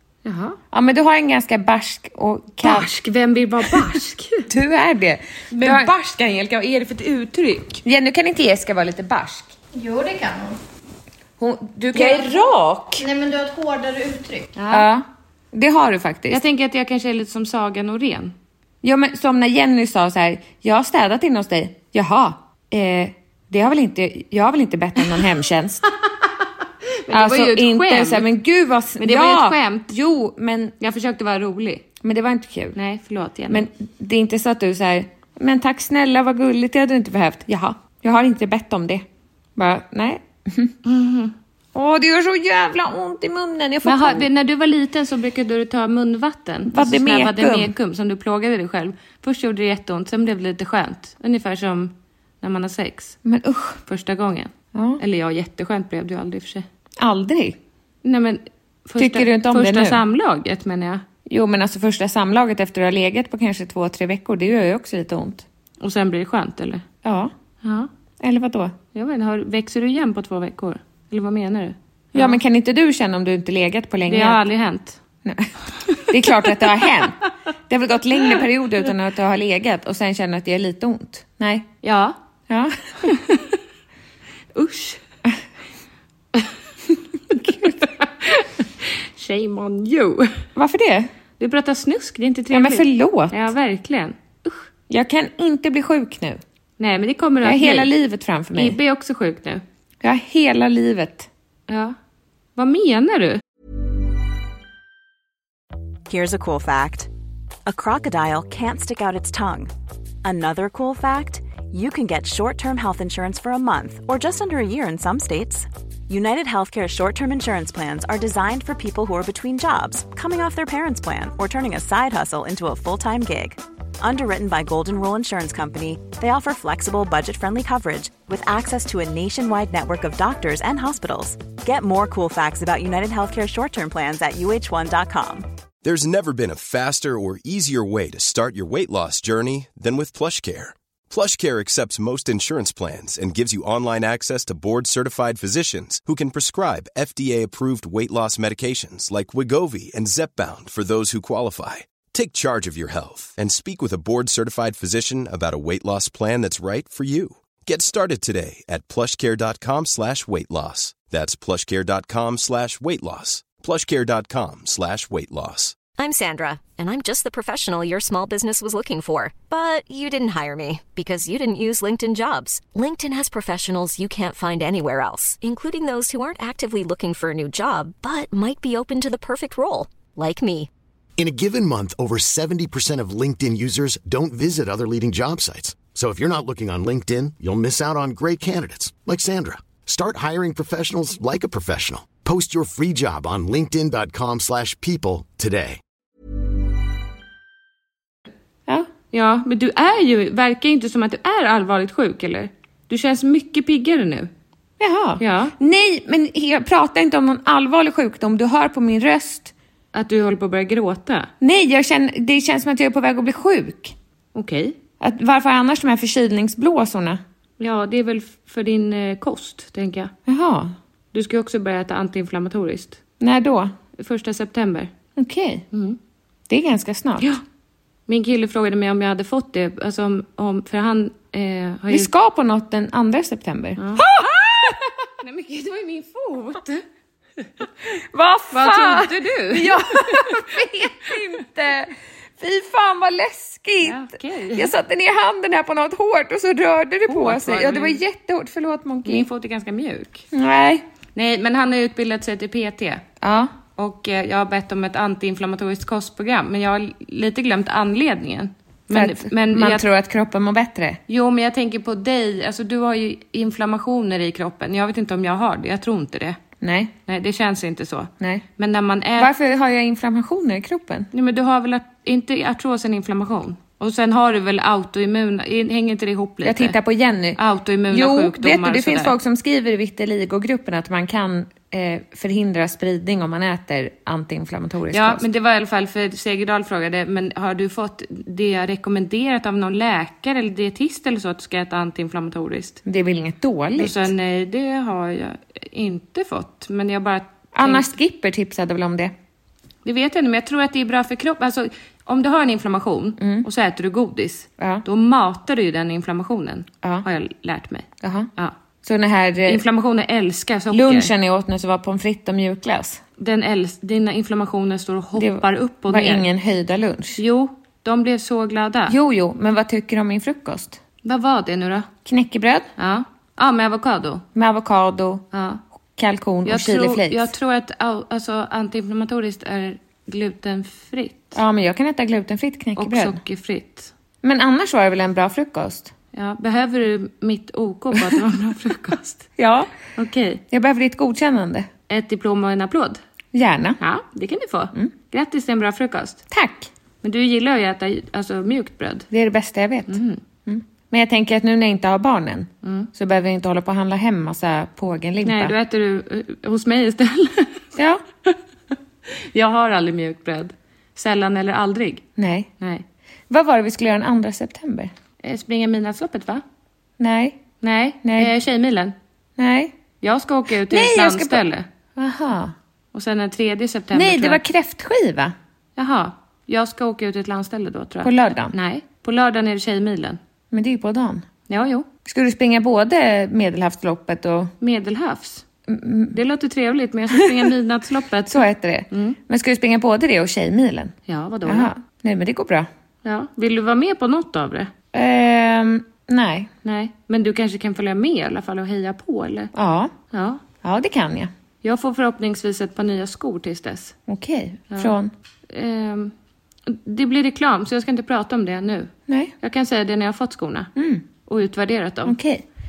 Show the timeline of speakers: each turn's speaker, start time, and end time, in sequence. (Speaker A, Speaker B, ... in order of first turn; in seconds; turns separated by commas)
Speaker A: 0.2-0.6, Speaker B: 0.7-2.9, Speaker A: 2.6-4.5, Speaker B: 4.5-5.9, Speaker A: 5.5-7.8, Speaker B: 7.8-9.6, Speaker C: 9.7-10.6, Speaker B: 11.4-13.1, Speaker A: 11.9-12.3, Speaker C: 13.0-14.5, Speaker A: 14.6-14.9, Speaker B: 14.7-16.4, Speaker A: 16.3-18.4, Speaker B: 18.8-25.8, Speaker A: 27.0-28.3, Speaker B: 27.1-30.8, Speaker A: 29.0-29.9, Speaker A: 30.8-31.9, Speaker B: 32.0-32.8, Speaker A: 32.8-33.7, Speaker B: 33.5-39.0, Speaker B: 39.6-40.7, Speaker A: 40.9-41.3, Speaker B: 41.7-44.3, Speaker A: 43.8-53.2, Speaker B: 46.7-47.7, Speaker B: 53.2-53.8, Speaker A: 53.9-56.7, Speaker B: 54.7-55.0, Speaker B: 57.0-57.6, Speaker A: 58.0-61.0, Speaker B: 59.0-60.0, Speaker B: 61.3-65.5, Speaker A: 65.8-66.8, Speaker B: 67.0-67.3, Speaker A: 67.6-67.9, Speaker B: 68.2-68.8, Speaker A: 68.9-72.4, Speaker B: 72.1-74.4, Speaker A: 74.1-75.0, Speaker B: 75.2-75.5, Speaker A: 75.9-76.6, Speaker B: 76.1-81.7, Speaker A: 81.8-82.2, Speaker B: 82.5-83.1, Speaker A: 83.0-83.5, Speaker A: 84.5-85.0, Speaker B: 87.3-87.8, Speaker A: 87.8-90.4, Speaker B: 90.6-91.1, Speaker A: 91.4-94.7, Speaker B: 92.5-93.5, Speaker B: 94.9-96.4, Speaker A: 96.8-97.9, Speaker B: 97.4-98.8, Speaker A: 98.5-99.6, Speaker B: 100.0-101.3, Speaker A: 101.7-102.0, Speaker A: 102.6-103.4, Speaker D: 106.1-107.1, Speaker D: 107.7-109.7, Speaker D: 110.2-135.5, Speaker E: 135.8-165.8, Speaker F: 166.0-180.7, Speaker G: 181.2-195.8, Speaker A: 199.1-204.3, Speaker B: 204.8-209.5, Speaker A: 205.2-205.5, Speaker A: 209.9-211.3, Speaker B: 211.4-213.9, Speaker A: 214.3-214.8, Speaker B: 215.0-217.2, Speaker A: 217.6-220.1, Speaker B: 220.3-220.7, Speaker A: 221.1-223.0, Speaker B: 223.2-223.7, Speaker A: 223.9-224.9, Speaker B: 225.2-225.7, Speaker A: 225.7-226.0, Speaker B: 226.5-227.4, Speaker A: 228.1-232.1, Speaker B: 231.9-234.8, Speaker A: 233.8-234.1, Speaker A: 235.1-236.8, Speaker B: 238.1-249.3, Speaker A: 238.5-240.8, Speaker A: 243.8-244.7, Speaker A: 247.1-248.0, Speaker A: 249.0-250.2, Speaker B: 250.3-250.8, Speaker A: 251.2-253.0, Speaker B: 253.2-253.5, Speaker A: 253.8-259.9, Speaker B: 258.9-261.0, Speaker A: 261.1-266.4, Speaker B: 266.6-266.9, Speaker A: 267.1-269.3, Speaker B: 268.2-268.5, Speaker B: 269.2-271.1, Speaker A: 271.1-276.8, Speaker B: 276.4-285.2, Speaker A: 277.4-279.1, Speaker A: 284.9-292.8, Speaker B: 292.9-294.1, Speaker A: 293.8-297.9, Speaker B: 297.5-299.1, Speaker A: 299.9-308.6, Speaker B: 303.2-303.5, Speaker B: 304.6-304.8, Speaker B: 308.0-308.3, Speaker B: 308.8-309.6, Speaker A: 309.5-311.1, Speaker B: 310.7-313.0, Speaker A: 313.2-316.3, Speaker B: 315.2-317.2, Speaker A: 317.2-319.0, Speaker B: 318.9-320.8, Speaker A: 321.0-321.9, Speaker B: 322.1-322.7, Speaker A: 322.8-324.2, Speaker B: 324.4-325.3, Speaker A: 325.3-325.6, Speaker B: 326.0-327.3, Speaker A: 326.5-331.4, Speaker B: 331.4-333.2, Speaker A: 332.8-333.9, Speaker B: 334.2-335.9, Speaker A: 336.1-339.3, Speaker B: 339.4-339.7, Speaker A: 339.9-340.4, Speaker B: 340.5-341.7, Speaker A: 341.9-343.0, Speaker B: 343.3-343.8, Speaker A: 343.8-346.2, Speaker B: 346.3-346.7, Speaker A: 347.0-349.1, Speaker B: 349.1-355.6, Speaker A: 349.9-350.2, Speaker A: 352.6-352.9, Speaker A: 355.2-357.6, Speaker B: 357.8-358.0, Speaker A: 359.1-362.0, Speaker B: 362.2-362.5, Speaker B: 363.3-364.9, Speaker A: 365.2-366.4, Speaker B: 367.0-367.4, Speaker A: 367.6-368.9, Speaker B: 368.0-368.3, Speaker B: 369.4-369.7, Speaker A: 370.0-371.7, Speaker B: 370.6-372.5, Speaker A: 372.9-374.4, Speaker B: 373.9-375.4, Speaker A: 375.8-380.2, Speaker B: 378.0-378.6, Speaker B: 380.5-381.3, Speaker A: 381.5-381.9, Speaker B: 382.1-384.5, Speaker A: 384.6-385.4, Speaker B: 385.7-386.2, Speaker A: 386.1-389.2, Speaker B: 387.1-387.5, Speaker B: 388.3-392.7, Speaker A: 391.1-391.7, Speaker A: 393.0-394.7, Speaker B: 394.9-396.5, Speaker A: 396.6-399.5, Speaker B: 399.5-399.9, Speaker A: 400.1-400.4, Speaker B: 400.6-401.3, Speaker A: 401.6-403.9, Speaker B: 404.1-405.1, Speaker A: 405.5-406.1, Speaker A: 406.7-410.7, Speaker B: 409.1-409.3, Speaker B: 410.8-411.1, Speaker A: 411.3-412.2, Speaker B: 412.1-412.4